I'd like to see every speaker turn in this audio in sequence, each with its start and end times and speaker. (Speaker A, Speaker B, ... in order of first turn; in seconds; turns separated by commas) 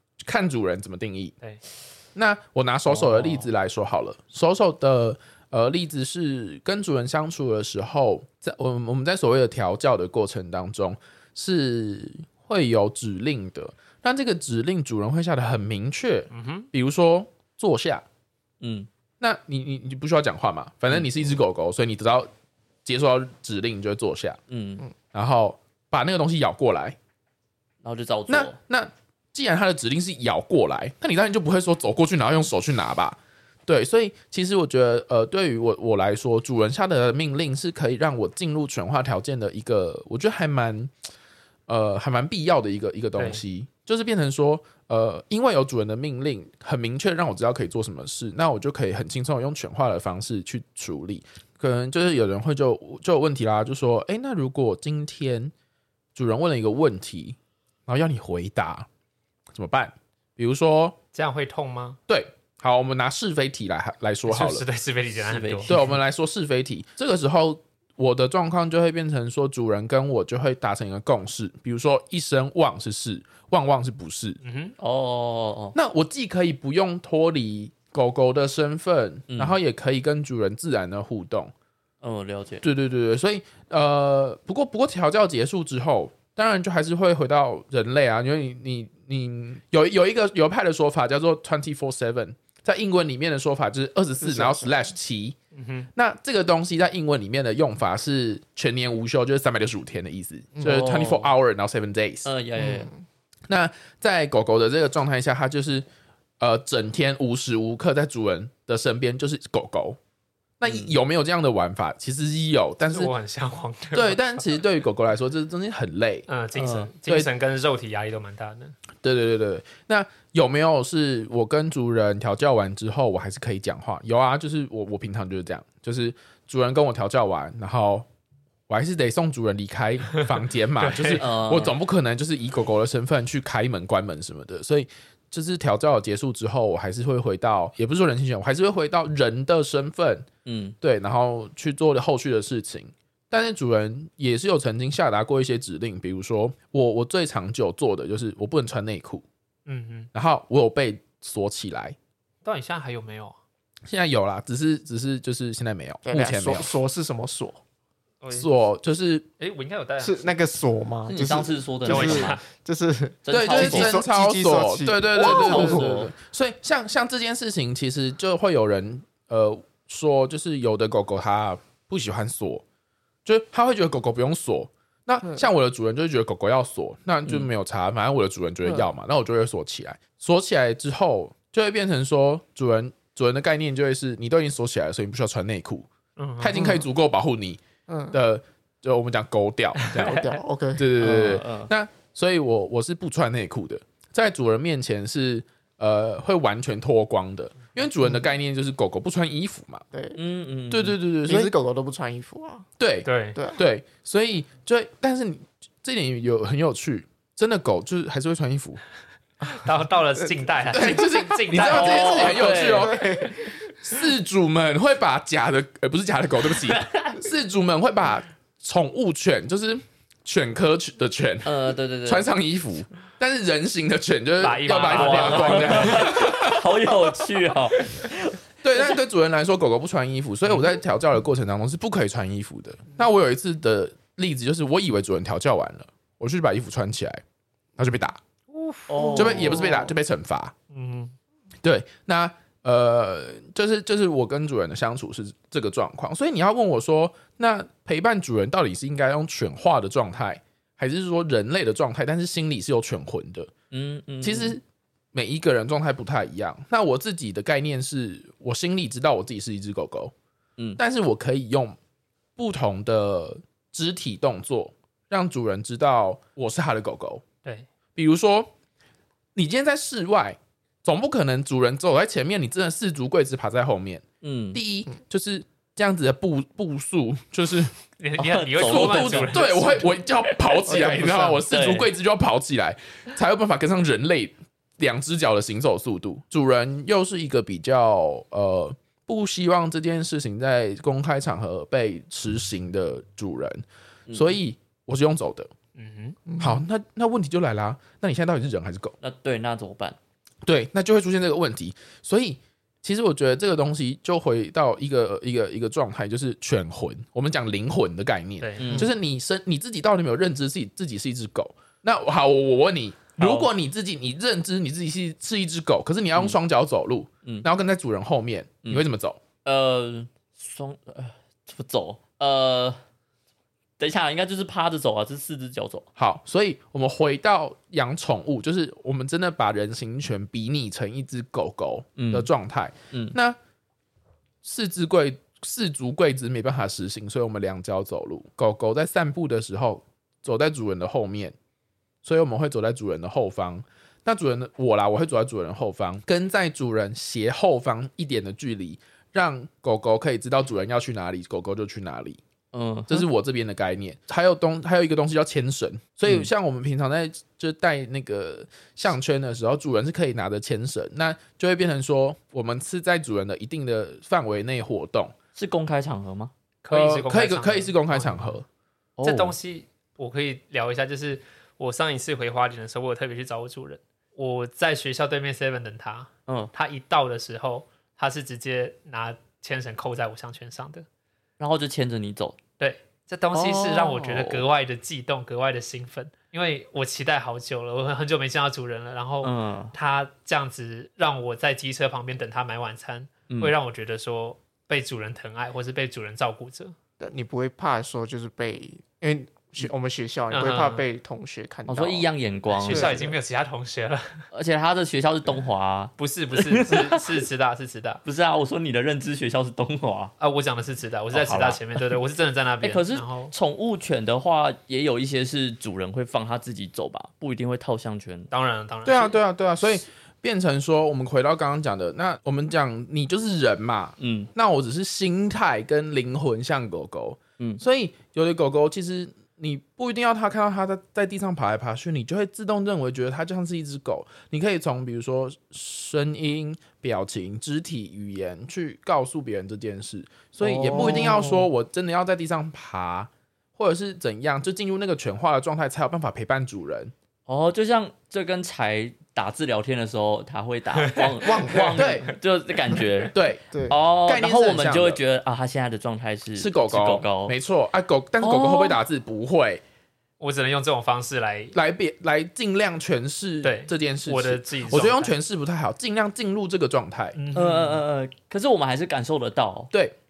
Speaker A: 0.2-1.3, Speaker A: 2.1-18.0, Speaker B: 2.9-3.5, Speaker C: 16.3-16.7, Speaker B: 18.6-18.9, Speaker A: 19.2-22.3, Speaker A: 22.8-24.4, Speaker B: 24.5-24.9, Speaker A: 25.1-27.0, Speaker B: 27.8-28.6, Speaker A: 28.3-40.9, Speaker A: 41.7-55.5, Speaker A: 56.1-58.9, Speaker A: 59.5-61.0, Speaker C: 61.1-62.0, Speaker A: 62.1-64.6, Speaker C: 64.3-65.8, Speaker B: 65.2-65.8, Speaker A: 65.7-74.4, Speaker C: 74.4-74.7, Speaker B: 74.8-75.8, Speaker A: 75.7-81.5, Speaker B: 79.3-79.5, Speaker B: 82.0-82.6, Speaker A: 82.6-95.3, Speaker D: 94.2-94.8, Speaker C: 95.5-95.9, Speaker A: 95.9-102.3, Speaker B: 100.6-101.3, Speaker B: 102.2-102.9, Speaker D: 102.6-103.0, Speaker A: 103.5-105.9, Speaker A: 106.4-110.0, Speaker A: 110.6-113.1, Speaker B: 110.7-110.9, Speaker C: 112.9-114.2, Speaker A: 113.9-116.3, Speaker C: 116.3-118.8, Speaker B: 116.5-116.9, Speaker A: 119.0-128.1, Speaker A: 128.7-140.2, Speaker C: 130.8-131.2, Speaker B: 131.2-131.7, Speaker B: 140.4-140.8, Speaker A: 140.8-149.2, Speaker C: 149.7-150.1, Speaker A: 150.1-151.9, Speaker C: 152.4-153.4, Speaker A: 153.8-156.7, Speaker D: 156.0-157.6, Speaker C: 158.2-158.5, Speaker A: 158.3-159.3, Speaker C: 159.4-160.3, Speaker D: 160.0-165.9, Speaker B: 161.1-162.4, Speaker C: 161.9-162.4, Speaker B: 163.2-164.0, Speaker A: 163.3-172.6, Speaker B: 165.1-166.1, Speaker A: 173.2-187.6, Speaker C: 186.2-186.7, Speaker D: 186.5-186.8, Speaker D: 187.9-188.2, Speaker A: 188.1-199.8, Speaker C: 189.8-190.4, Speaker D: 190.0-191.3, Speaker B: 191.0-191.7, Speaker D: 199.9-200.2, Speaker B: 200.1-201.0, Speaker A: 200.7-201.5, Speaker D: 201.2-202.7, Speaker A: 202.8-208.8, Speaker C: 203.0-203.4, Speaker D: 203.3-203.6, Speaker C: 209.4-212.4, Speaker A: 210.7-226.8, Speaker D: 210.7-211.2, Speaker B: 211.6-213.0, Speaker D: 212.2-213.7, Speaker B: 216.7-217.1, Speaker B: 221.4-222.3, Speaker C: 224.4-226.1, Speaker B: 224.9-228.8, Speaker A: 228.6-237.2, Speaker A: 237.8-238.2, Speaker C: 238.5-239.0, Speaker B: 238.9-239.9, Speaker D: 239.0-239.8, Speaker A: 239.1-240.5, Speaker C: 240.7-241.1, Speaker A: 241.6-253.5, Speaker B: 253.7-254.6, Speaker A: 254.2-254.6, Speaker A: 255.1-260.1, Speaker A: 260.8-261.8, Speaker A: 262.4-267.2, Speaker A: 267.9-268.5, Speaker A: 269.3-277.7, Speaker B: 274.2-274.6, Speaker C: 278.0-279.9, Speaker B: 278.2-279.9, Speaker A: 278.6-295.5, Speaker B: 280.5-281.9, Speaker C: 280.7-281.2, Speaker D: 280.7-281.4, Speaker B: 294.1-294.3, Speaker C: 295.8-296.2, Speaker D: 296.3-296.6, Speaker A: 296.4-298.9, Speaker B: 299.0-300.0, Speaker A: 300.4-319.2, Speaker C: 308.4-308.7, Speaker B: 308.6-308.9, Speaker B: 313.2-313.4, Speaker B: 319.4-322.8, Speaker B: 323.8-325.9, Speaker A: 326.0-333.4, Speaker B: 332.0-332.3, Speaker A: 334.4-341.4, Speaker A: 342.0-352.2, Speaker B: 352.5-353.1, Speaker A: 352.9-365.1, Speaker B: 365.3-366.3, Speaker C: 366.6-368.4, Speaker A: 366.7-368.4, Speaker B: 369.0-369.4, Speaker C: 369.0-380.9, Speaker B: 376.3-376.5, Speaker B: 381.4-382.4, Speaker C: 382.6-396.7, Speaker B: 383.3-384.4, Speaker B: 389.2-389.7, Speaker D: 397.0-402.1, Speaker C: 400.3-400.8, Speaker B: 401.7-403.1, Speaker C: 402.5-404.2, Speaker D: 402.6-403.1, Speaker B: 404.3-407.2, Speaker C: 406.0-408.0, Speaker B: 408.0-410.1, Speaker C: 410.2-413.3, Speaker B: 411.1-411.9, Speaker B: 412.6-418.3, Speaker C: 418.3-419.1, Speaker A: 418.8-446.9, Speaker B: 424.0-424.3, Speaker B: 440.4-441.5, Speaker B: 447.3-453.1, Speaker C: 450.8-452.1, Speaker D: 451.2-451.8, Speaker A: 451.8-452.1, Speaker A: 453.1-453.4, Speaker D: 453.5-453.8, Speaker B: 453.7-457.4, Speaker A: 454.0-455.0, Speaker A: 456.4-459.6, Speaker B: 458.2-458.8, Speaker C: 460.2-461.5, Speaker A: 461.5-467.2, Speaker C: 463.4-465.1, Speaker C: 467.1-467.8, Speaker B: 467.3-469.7